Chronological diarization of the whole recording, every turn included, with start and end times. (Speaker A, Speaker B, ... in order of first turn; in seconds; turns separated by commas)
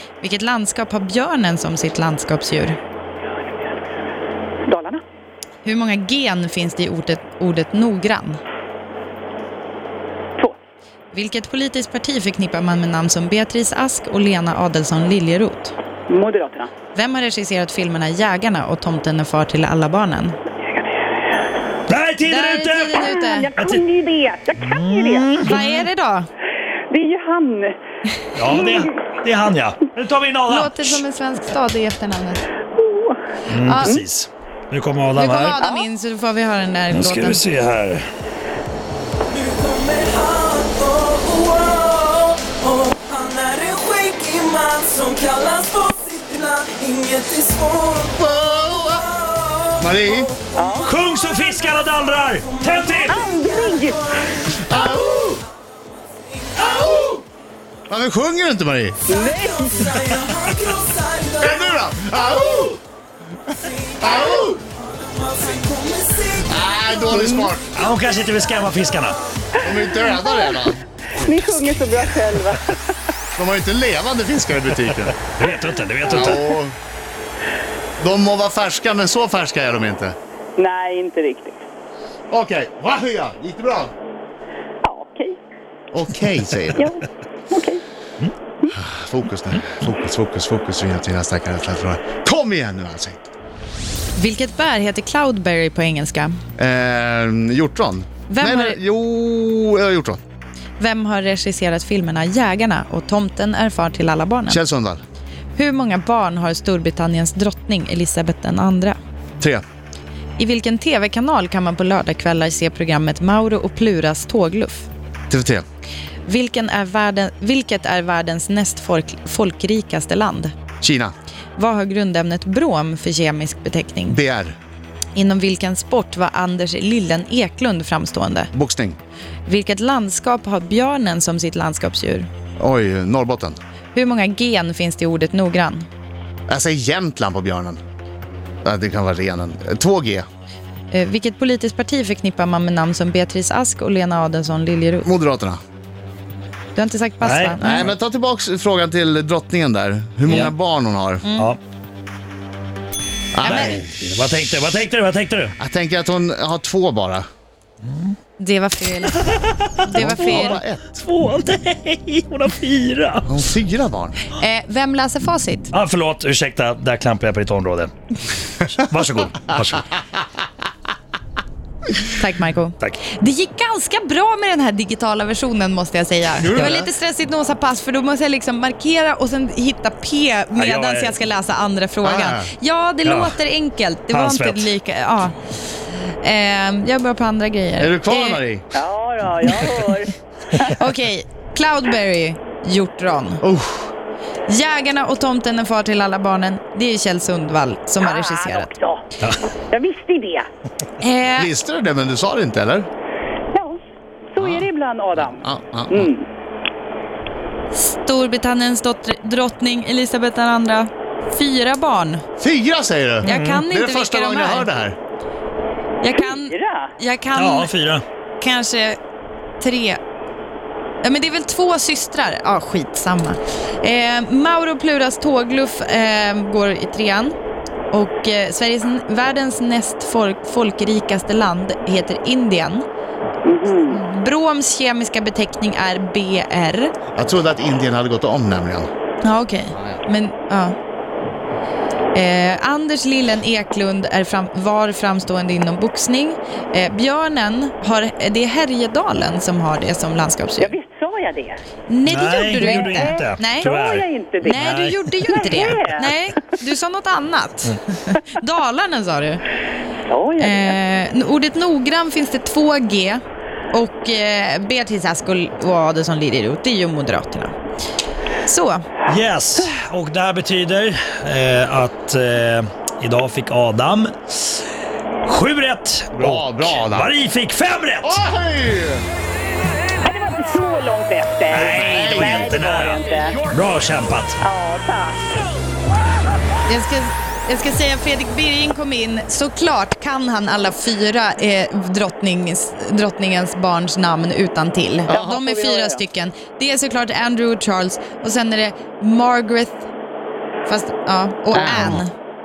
Speaker A: 0.2-2.8, Speaker B: 3.3-4.1, Speaker B: 4.7-5.0, Speaker A: 5.6-8.4, Speaker A: 11.1-15.8, Speaker B: 16.1-16.7, Speaker A: 16.9-20.4, Speaker B: 20.6-21.3, Speaker C: 21.9-23.8, Speaker A: 22.2-23.5, Speaker B: 22.9-25.8, Speaker C: 24.6-25.7, Speaker A: 25.4-26.3, Speaker B: 26.9-27.7, Speaker C: 28.3-31.0, Speaker A: 30.5-32.4, Speaker B: 32.8-33.2, Speaker C: 33.5-35.6, Speaker A: 33.6-34.0, Speaker A: 35.2-37.4, Speaker B: 35.6-35.8, Speaker C: 36.9-38.1, Speaker D: 39.9-40.6, Speaker D: 43.1-47.8, Speaker E: 47.9-49.1, Speaker E: 49.7-50.3, Speaker B: 50.5-50.9, Speaker C: 50.8-53.3, Speaker B: 53.1-54.5, Speaker E: 54.5-55.4, Speaker E: 56.6-57.2, Speaker E: 57.9-59.1, Speaker B: 59.1-60.0, Speaker D: 59.9-61.2, Speaker E: 61.2-62.8, Speaker E: 63.9-64.6, Speaker D: 65.2-66.4, Speaker E: 66.4-67.7, Speaker B: 67.1-67.5, Speaker C: 67.7-69.2, Speaker B: 69.6-70.6, Speaker E: 69.6-70.8, Speaker B: 71.2-72.9, Speaker E: 73.3-75.2, Speaker C: 75.2-76.5, Speaker E: 76.0-76.8, Speaker E: 78.0-80.2, Speaker B: 80.6-81.6, Speaker E: 82.3-83.9, Speaker B: 84.8-85.4, Speaker E: 85.9-86.9, Speaker B: 86.8-87.8, Speaker E: 88.7-93.2, Speaker A: 94.2-96.4, Speaker E: 96.6-100.2, Speaker A: 98.3-98.8, Speaker A: 100.8-104.6, Speaker E: 104.5-105.0, Speaker A: 105.6-109.0, Speaker A: 110.4-114.9, Speaker E: 115.3-115.6, Speaker A: 116.3-120.5, Speaker E: 120.8-121.1, Speaker A: 121.6-124.2, Speaker E: 124.1-124.6, Speaker A: 125.1-128.5, Speaker E: 128.5-129.0, Speaker A: 129.4-132.3, Speaker E: 132.6-133.6, Speaker A: 133.9-135.9, Speaker E: 136.5-137.8, Speaker E: 138.6-140.2, Speaker A: 140.9-145.1, Speaker E: 145.0-145.6, Speaker A: 146.8-147.9, Speaker C: 147.2-147.7, Speaker E: 147.6-151.2, Speaker C: 150.3-150.5, Speaker A: 151.2-151.5, Speaker E: 153.3-153.9, Speaker A: 153.4-153.8, Speaker C: 153.4-155.6, Speaker E: 155.6-157.2, Speaker C: 157.8-158.1, Speaker A: 158.4-159.3, Speaker C: 159.2-163.3, Speaker A: 159.8-160.6, Speaker E: 159.9-160.9, Speaker E: 163.2-164.2, Speaker A: 164.3-165.7, Speaker C: 165.7-167.9, Speaker C: 168.6-169.9, Speaker A: 172.1-185.4, Speaker E: 176.4-176.9, Speaker C: 180.6-181.2, Speaker E: 182.0-182.5, Speaker C: 183.1-183.3, Speaker C: 184.1-184.7, Speaker A: 186.2-188.4, Speaker E: 187.8-188.7, Speaker B: 188.8-190.8, Speaker A: 190.6-193.4, Speaker E: 193.4-193.9, Speaker A: 194.5-198.7, Speaker B: 198.0-199.1, Speaker B: 199.7-200.5, Speaker A: 201.0-201.5, Speaker E: 201.3-202.9, Speaker B: 203.5-203.8, Speaker B: 204.3-206.2, Speaker E: 204.4-204.7, Speaker E: 205.4-206.1, Speaker A: 207.7-212.2, Speaker E: 212.4-214.9, Speaker A: 213.2-214.7, Speaker C: 213.2-213.6, Speaker A: 216.0-217.7, Speaker B: 216.1-216.9, Speaker C: 217.3-218.0, Speaker A: 218.4-219.0, Speaker A: 219.6-220.0, Speaker A: 221.0-227.3, Speaker A: 227.9-232.8, Speaker B: 233.4-234.0, Speaker A: 233.9-236.9, Speaker E: 237.1-238.9, Speaker A: 239.2-240.7, Speaker E: 239.7-240.0, Speaker A: 242.1-250.7, Speaker B: 250.6-251.6, Speaker A: 251.9-253.7, Speaker C: 252.1-255.0, Speaker B: 252.6-254.6, Speaker A: 254.4-259.4, Speaker B: 255.2-256.1, Speaker B: 260.1-260.8, Speaker A: 260.4-267.5, Speaker A: 268.4-268.8, Speaker C: 269.1-274.6, Speaker C: 275.2-278.2, Speaker E: 276.1-277.1, Speaker E: 278.0-279.0, Speaker B: 280.0-283.4, Speaker C: 281.5-284.4, Speaker E: 281.7-282.8, Speaker B: 284.4-285.2, Speaker A: 286.7-299.9, Speaker E: 295.1-295.4, Speaker B: 295.1-296.0, Speaker A: 300.6-302.1, Speaker E: 301.5-302.1